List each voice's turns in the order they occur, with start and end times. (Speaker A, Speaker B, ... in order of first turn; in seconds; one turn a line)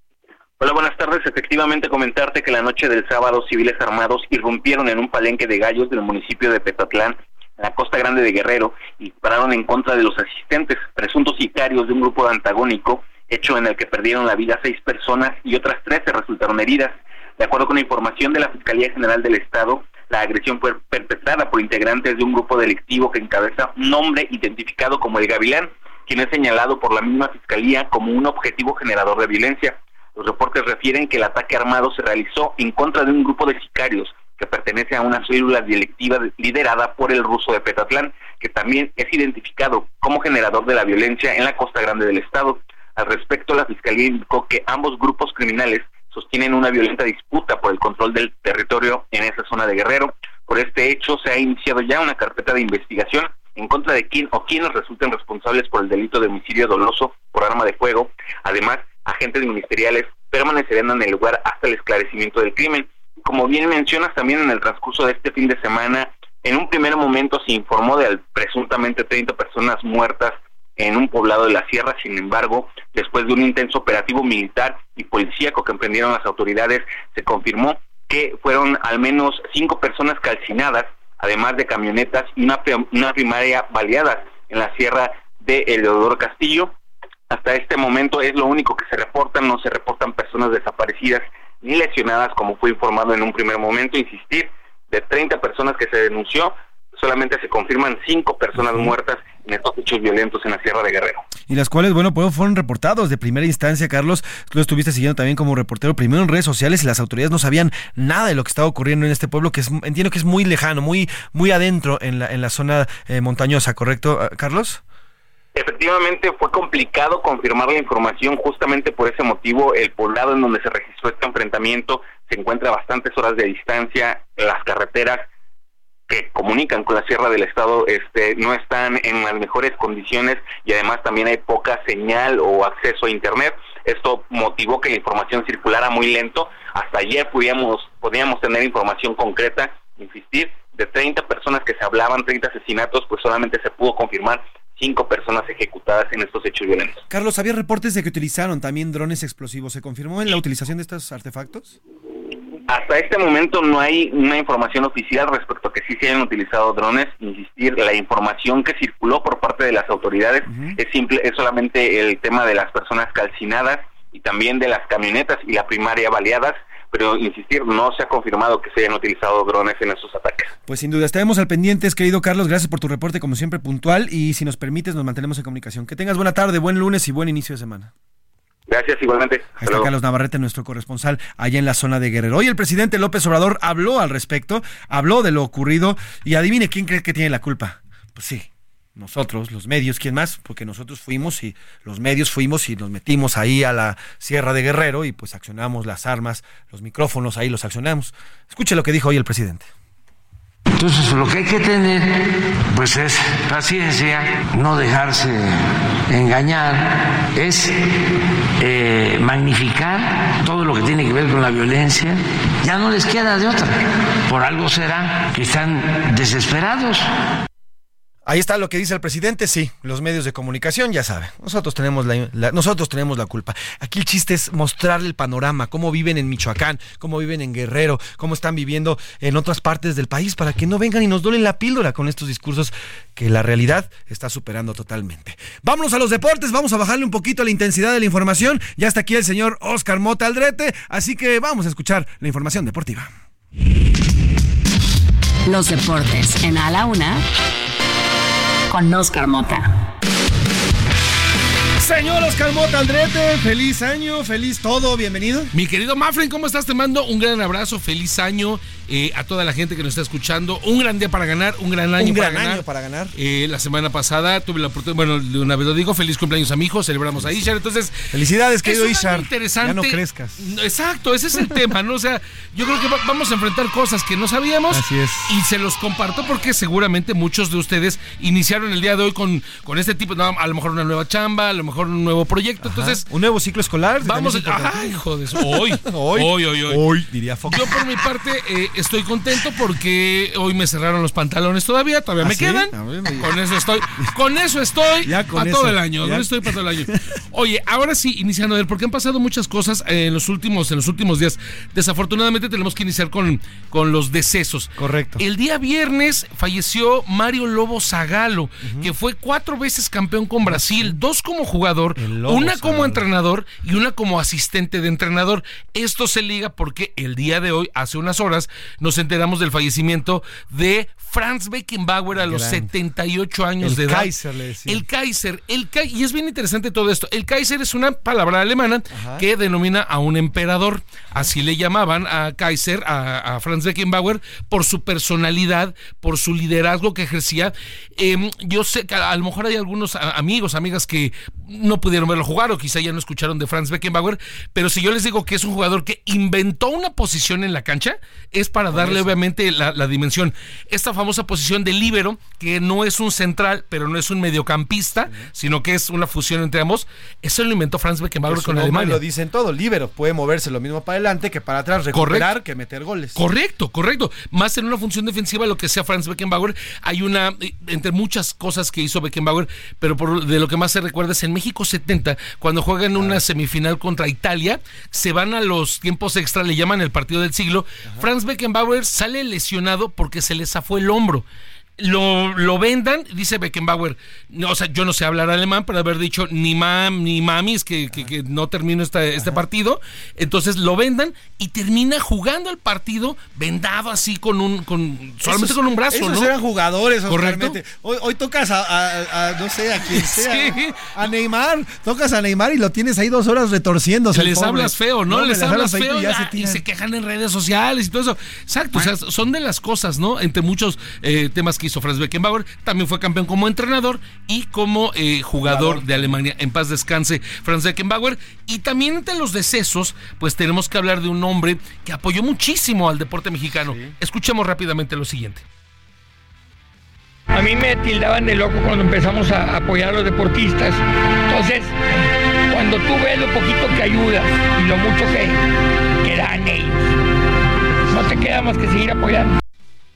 Speaker A: 0.6-86.7
Speaker A: 87.3-101.2
Speaker B: 101.5-114.8
Speaker A: 115.5-125.2
Speaker A: 126.1-147.0
Speaker B: 147.1-151.8
Speaker A: 152.7-170.5
Speaker B: 170.7-177.9
Speaker A: 178.7-179.9
Speaker B: 179.6-199.7
Speaker C: 200.7-207.8
Speaker C: 208.6-217.1
Speaker B: 218.2-243.1
Speaker D: 245.4-247.2
Speaker D: 248.7-249.7
Speaker B: 251.8-255.5
Speaker E: 255.5-262.6
Speaker B: 262.0-263.1
Speaker E: 263.1-283.1
Speaker B: 268.1-270.4
Speaker B: 274.7-275.4
Speaker B: 282.6-287.8
Speaker E: 284.0-286.9
Speaker E: 287.5-324.1
Speaker B: 292.2-293.3
Speaker B: 295.0-297.0
Speaker B: 304.8-305.2
Speaker B: 308.6-308.9
Speaker B: 310.4-311.0
Speaker B: 311.9-313.0
Speaker B: 322.1-322.7
Speaker B: 323.6-324.8
Speaker E: 324.6-359.0
Speaker B: 328.9-329.2
Speaker B: 348.7-349.1
Speaker B: 358.3-363.2
Speaker E: 361.9-362.3
Speaker E: 363.1-381.2
Speaker E: 381.8-396.3
Speaker B: 395.2-406.6
Speaker E: 397.1-397.6
Speaker E: 399.9-400.9
Speaker E: 404.1-425.4
Speaker B: 415.4-416.1
Speaker F: 427.3-431.7
Speaker F: 432.5-435.4
Speaker F: 436.0-436.9
Speaker F: 437.9-439.4